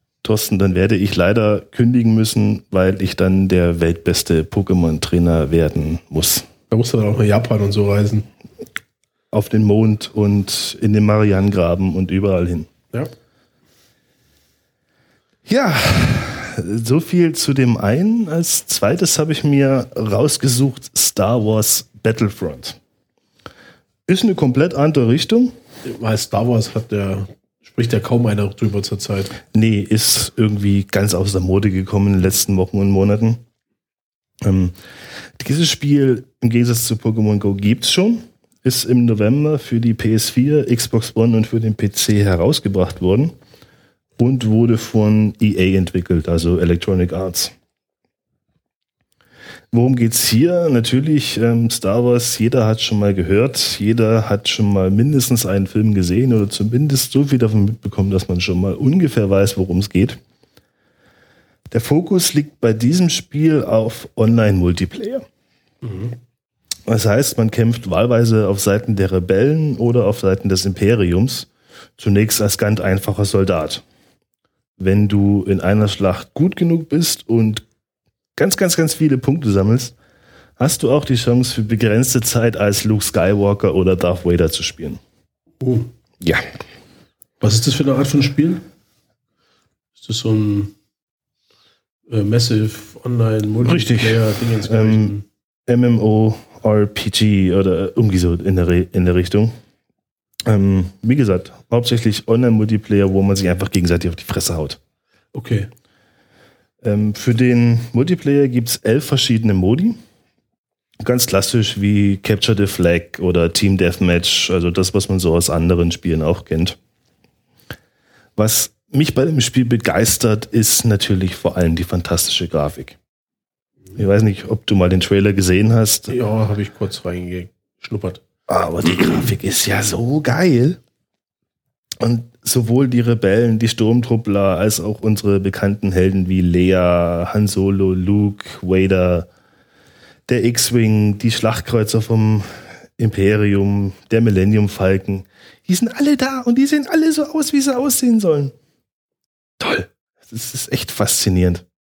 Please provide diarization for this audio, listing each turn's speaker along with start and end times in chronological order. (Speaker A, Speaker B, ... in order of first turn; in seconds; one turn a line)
Speaker A: 0.2-6.5
Speaker B: 6.7-8.3
Speaker A: 9.3-12.7
Speaker A: 15.5-22.8
Speaker A: 24.1-25.6
Speaker B: 25.9-29.4
Speaker A: 29.5-33.4
Speaker A: 34.4-34.7
Speaker A: 35.4-43.4
Speaker A: 44.2-47.5
Speaker A: 49.7-60.2
Speaker A: 61.7-65.2
Speaker B: 65.8-66.2
Speaker A: 66.9-73.8
Speaker A: 74.8-77.6
Speaker A: 78.4-80.0
Speaker A: 80.6-85.0
Speaker B: 85.6-85.9
Speaker B: 87.4-88.7
Speaker B: 90.0-90.7
Speaker B: 92.1-95.3
Speaker A: 93.6-95.2
Speaker A: 95.7-99.5
Speaker A: 100.5-104.8
Speaker B: 105.3-105.7
Speaker A: 106.8-110.0
Speaker A: 111.0-116.8
Speaker A: 118.4-123.0
Speaker A: 124.0-126.2
Speaker B: 126.1-128.2
Speaker A: 128.5-130.8
Speaker A: 132.0-139.3
Speaker A: 140.3-148.5
Speaker A: 149.6-151.6